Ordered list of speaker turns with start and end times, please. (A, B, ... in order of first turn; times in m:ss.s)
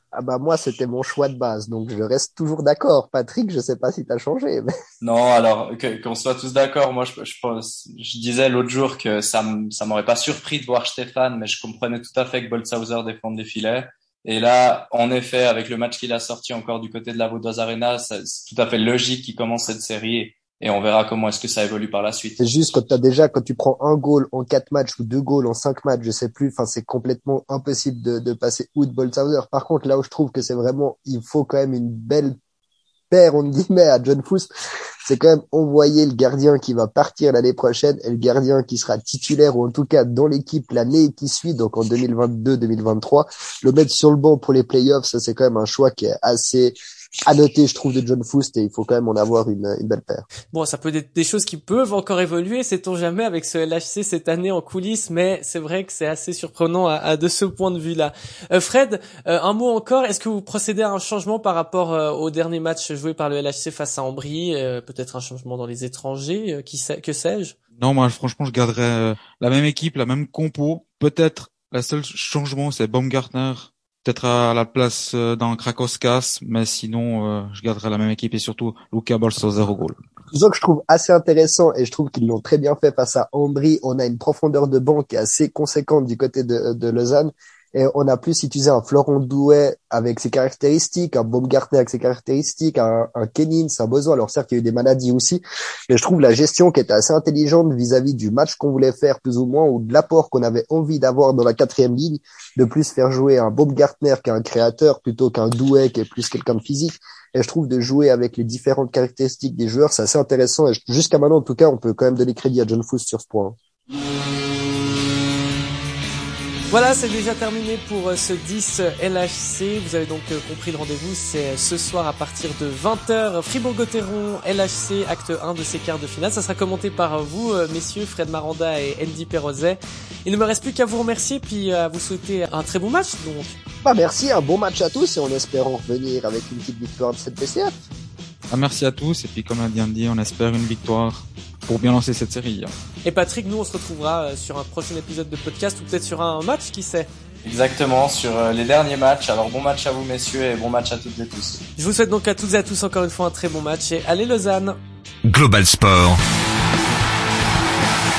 0:00.1-0:04.7 A
0:05.0-0:22.4 B
0:22.4-0:32.4 A
0:33.1-0:34.5 A
0:35.0-0:46.8 A
0:47.3-0:50.2 A
0:50.5-1:07.6 C
1:07.8-1:20.0 D
1:20.3-1:53.6 A
1:56.7-2:13.6 C
2:13.8-2:17.7 A
2:18.5-2:22.7 D
2:23.0-2:27.1 C
2:27.4-2:31.6 B
2:31.8-2:34.8 C
2:35.3-2:36.2 D